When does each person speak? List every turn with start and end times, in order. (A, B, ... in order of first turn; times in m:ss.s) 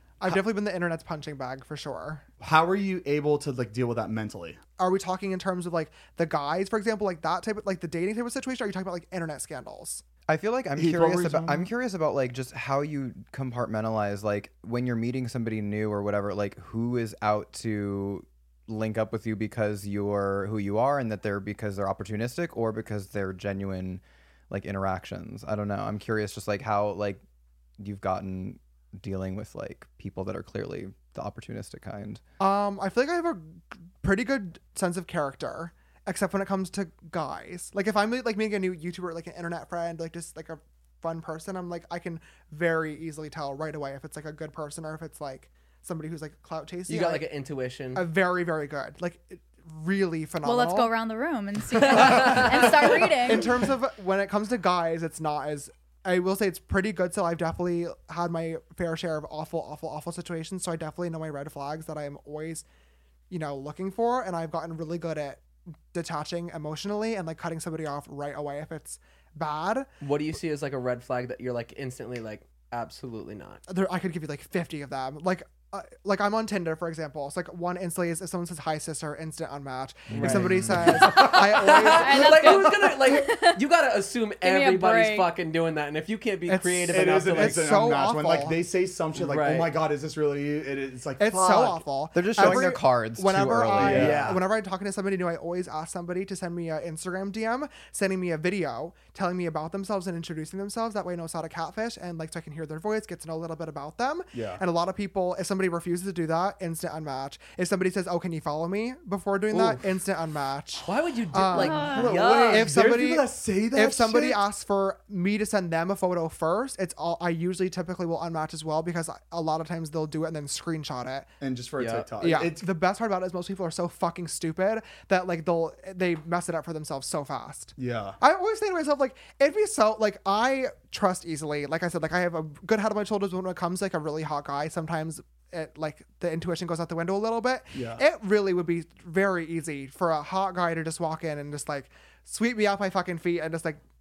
0:00.2-0:02.2 A
0:02.4-0:04.6 B
0:04.8-0:10.0 A
0:10.3-0:27.2 C
0:10.8-0:11.7 B
0:27.8-0:32.2 C
0:32.4-0:47.2 A
0:46.9-0:48.0 D
0:47.9-0:50.9 A
0:50.4-0:53.6 E
0:51.8-1:02.6 A
0:51.9-0:52.4 D
1:03.3-1:09.9 A
1:10.0-1:13.6 D
1:13.7-1:22.7 A
1:20.1-1:21.4 B
1:20.1-1:27.6 D
1:21.8-1:23.6 E
1:24.4-1:25.3 E
1:26.5-1:28.6 A
1:26.9-1:31.8 B
1:29.2-1:29.7 D
1:31.2-2:01.3 A
1:32.1-1:34.2 C
1:32.4-1:32.6 B
1:33.8-1:34.4 B
1:34.0-1:34.3 D
1:44.3-1:44.6 B
1:50.8-1:52.7 D
1:51.6-1:52.0 E
1:51.6-1:54.4 B
2:01.4-2:02.6 B
2:01.8-2:02.1 D
2:02.2-2:23.8 A
2:07.8-2:08.2 B
2:17.7-2:18.0 B